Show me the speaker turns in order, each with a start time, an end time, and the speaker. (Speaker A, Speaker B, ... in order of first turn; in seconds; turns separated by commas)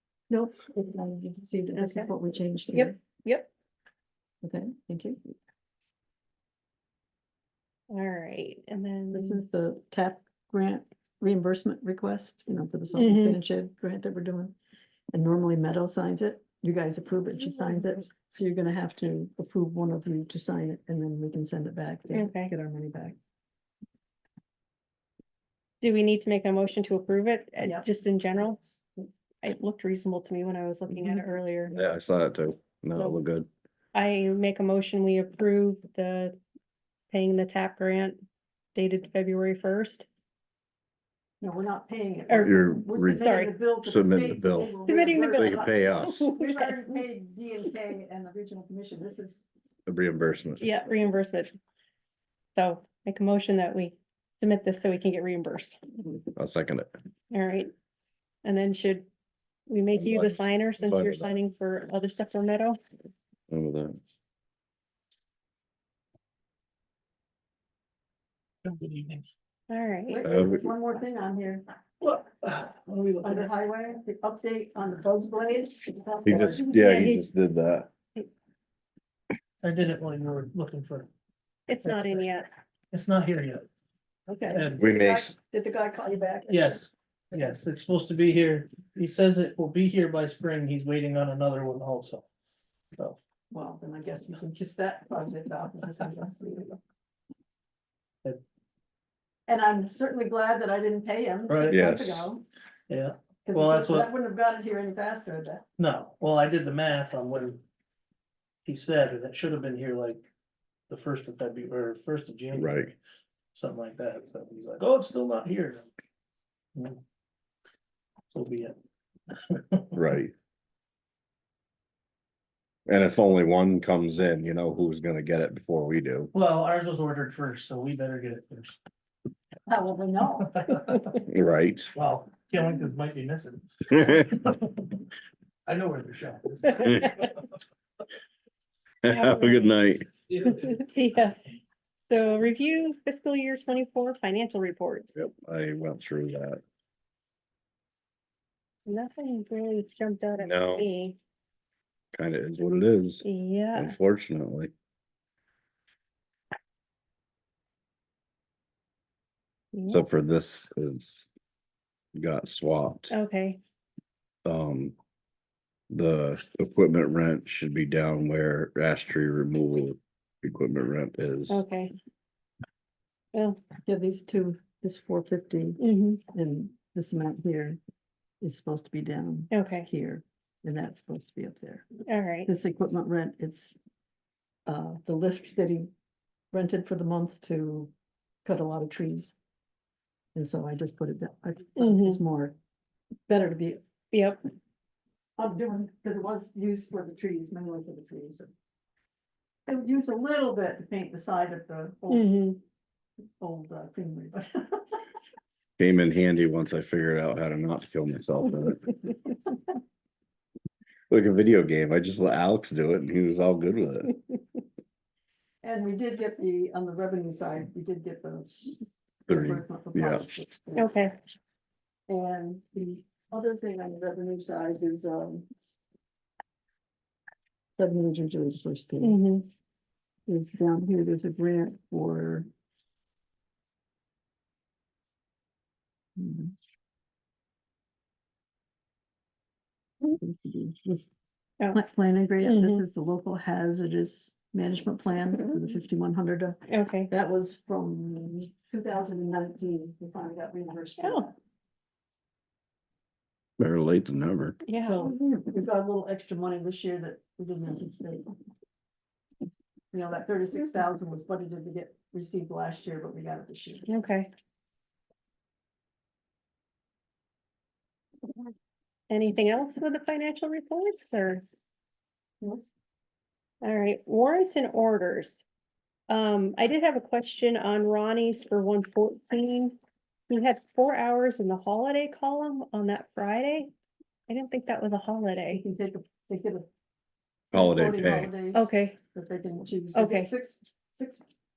Speaker A: 0.3-3.0, Speaker B: 1.7-2.1, Speaker B: 2.7-3.5, Speaker A: 4.4-5.2, Speaker B: 7.9-9.4, Speaker A: 9.1-14.5, Speaker B: 12.9-13.4, Speaker A: 15.1-23.1, Speaker B: 22.1-22.5, Speaker B: 25.8-28.6, Speaker A: 27.6-28.8, Speaker B: 29.4-31.8, Speaker C: 31.7-33.5, Speaker B: 33.9-36.3, Speaker B: 37.1-38.2, Speaker B: 38.7-40.0, Speaker A: 41.4-49.4, Speaker B: 42.3-43.5, Speaker C: 42.4-44.7, Speaker B: 44.9-47.0, Speaker C: 45.3-46.2, Speaker C: 49.9-50.6, Speaker B: 50.6-51.5, Speaker B: 52.5-55.8, Speaker C: 56.3-56.9, Speaker B: 57.3-57.7, Speaker B: 58.4-59.1, Speaker B: 59.7-62.8, Speaker C: 59.9-61.3, Speaker C: 63.5-64.0, Speaker D: 68.6-69.2, Speaker B: 69.7-70.2, Speaker A: 70.1-71.6, Speaker C: 70.2-70.6, Speaker D: 72.0-73.5, Speaker A: 73.2-76.8, Speaker C: 76.2-77.9, Speaker B: 76.7-77.3, Speaker D: 79.6-81.1, Speaker B: 81.7-82.5, Speaker D: 81.8-82.2, Speaker D: 82.9-83.7, Speaker A: 84.3-86.8, Speaker D: 84.5-84.8, Speaker C: 84.8-85.3, Speaker D: 86.5-92.3, Speaker A: 93.5-96.8, Speaker A: 99.5-102.4, Speaker D: 101.5-101.8, Speaker C: 101.7-102.3, Speaker D: 102.9-104.1, Speaker A: 103.5-105.6, Speaker D: 105.8-107.6, Speaker D: 108.6-110.3, Speaker D: 110.9-113.0, Speaker C: 112.5-112.9, Speaker D: 113.5-115.9, Speaker D: 116.7-117.0, Speaker D: 118.3-118.7, Speaker D: 119.3-119.9, Speaker C: 119.9-120.3, Speaker C: 122.9-126.3, Speaker D: 126.3-128.8, Speaker A: 129.7-130.6, Speaker D: 130.6-131.1, Speaker C: 131.2-131.9, Speaker D: 131.9-135.0, Speaker D: 135.7-137.4, Speaker C: 136.8-137.1, Speaker C: 139.0-140.1, Speaker B: 139.1-139.8, Speaker D: 140.3-140.8, Speaker B: 140.6-141.4, Speaker B: 142.1-145.2, Speaker C: 145.1-146.6, Speaker B: 148.9-151.2, Speaker C: 150.4-150.8, Speaker C: 152.1-154.7, Speaker B: 153.2-153.9, Speaker B: 159.7-160.1, Speaker C: 159.9-161.3, Speaker C: 162.2-163.1, Speaker B: 163.1-163.6, Speaker C: 164.4-164.9, Speaker C: 165.9-171.6, Speaker B: 171.5-171.9, Speaker B: 173.3-173.6, Speaker A: 173.8-175.8, Speaker B: 175.8-176.2, Speaker A: 176.3-177.8, Speaker A: 178.4-181.9, Speaker B: 179.5-179.9, Speaker B: 182.1-182.5, Speaker A: 182.4-183.8, Speaker A: 184.7-185.9, Speaker A: 186.5-187.9, Speaker A: 188.4-189.3, Speaker A: 190.3-192.5, Speaker B: 191.8-192.2, Speaker A: 193.3-193.8, Speaker B: 194.1-194.4, Speaker A: 195.4-198.5, Speaker A: 199.7-202.4, Speaker B: 202.1-202.6, Speaker A: 203.4-205.0, Speaker C: 205.8-208.8, Speaker C: 211.1-214.1, Speaker A: 215.6-220.9, Speaker C: 219.3-220.2, Speaker B: 220.8-221.1, Speaker A: 222.1-225.4, Speaker A: 227.8-229.2, Speaker B: 229.0-229.5, Speaker A: 230.3-232.5, Speaker A: 236.2-236.5, Speaker A: 240.1-241.1, Speaker A: 241.7-246.6, Speaker B: 242.4-242.8, Speaker B: 246.7-247.1, Speaker A: 247.1-251.3, Speaker B: 251.0-251.2, Speaker C: 253.6-254.6, Speaker B: 254.6-255.1, Speaker A: 254.8-258.3, Speaker A: 259.9-263.9, Speaker B: 263.9-264.3, Speaker B: 269.1-271.4, Speaker B: 273.6-275.4, Speaker B: 276.1-279.8, Speaker B: 280.3-283.7, Speaker B: 284.3-285.6, Speaker A: 285.5-286.6, Speaker C: 287.5-288.3, Speaker A: 287.5-291.2, Speaker B: 288.5-289.0, Speaker B: 289.9-290.3